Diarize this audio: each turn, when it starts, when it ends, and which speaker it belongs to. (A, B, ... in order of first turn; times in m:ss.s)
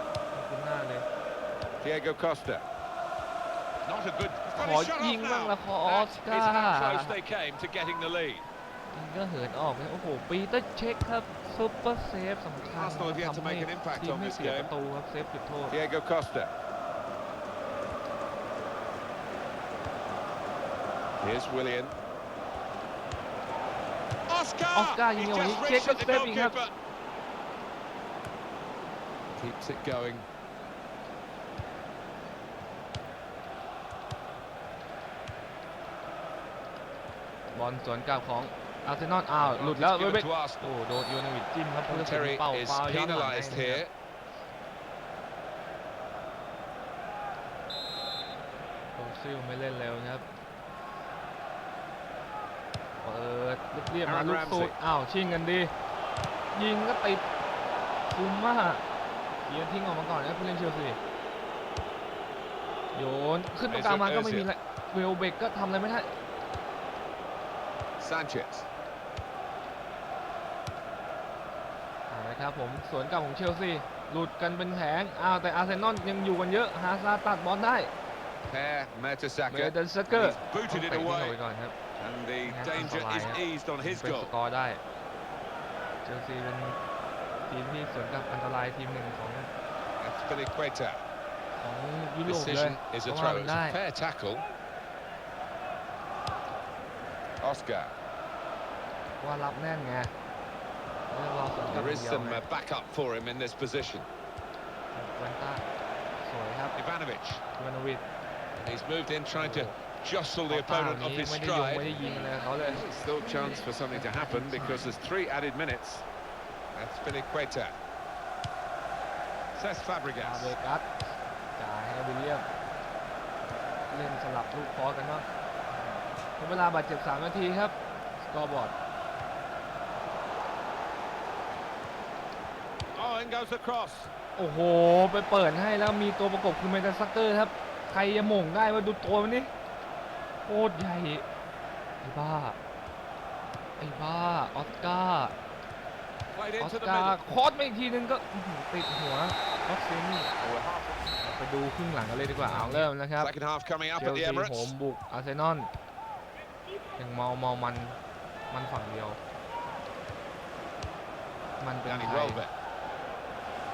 0:00.3-0:01.0 A
0:01.8-0:02.6 B
0:03.8-0:08.4 B
0:04.5-0:07.2 A
0:08.9-0:15.8 A
0:12.6-0:14.7 B
0:15.7-0:16.5 B
0:21.2-0:22.0 B
0:24.3-0:26.7 B
0:24.7-0:26.6 A
0:29.3-0:30.2 B
0:37.5-0:43.8 A
0:39.4-0:40.7 B
0:41.9-0:43.9 B
0:48.9-0:50.2 A
0:53.0-0:55.7 A
0:54.0-0:54.8 B
0:56.5-0:57.2 A
0:58.1-0:58.8 A
0:59.4-1:01.0 A
1:02.9-1:06.1 A
1:03.7-1:04.5 B
1:08.0-1:08.6 B
1:12.1-1:17.9 A
1:18.4-1:21.4 B
1:19.5-1:21.7 A
1:22.0-1:24.3 B
1:22.4-1:24.8 A
1:26.0-1:26.8 A
1:27.5-1:29.5 A
1:30.0-1:31.0 B
1:31.5-1:33.8 A
1:32.2-1:34.5 B
1:37.4-1:37.9 B
1:39.2-1:40.1 A
1:41.1-1:42.5 A
1:41.7-1:44.1 B
1:44.9-1:45.6 A
1:46.2-1:46.8 A
1:46.8-1:47.4 B
1:47.5-1:48.0 A
1:48.5-1:56.0 B
1:49.3-1:49.8 A
1:50.5-1:52.8 A
1:53.9-1:54.9 A
1:56.7-1:57.8 B
1:59.5-2:00.5 B
2:00.2-2:02.5 A
2:03.9-2:08.7 A
2:12.9-2:14.1 B
2:14.4-2:19.5 A
2:20.4-2:21.2 A
2:22.0-2:22.6 A
2:23.8-2:25.3 A
2:26.3-2:27.2 B
2:26.6-2:30.3 A
2:30.4-2:31.0 B
2:31.2-2:33.3 A
2:32.4-2:34.7 B
2:33.9-2:35.7 A
2:37.0-2:38.0 A
2:38.5-2:39.2 A
2:41.6-2:42.4 A
2:41.8-2:42.5 B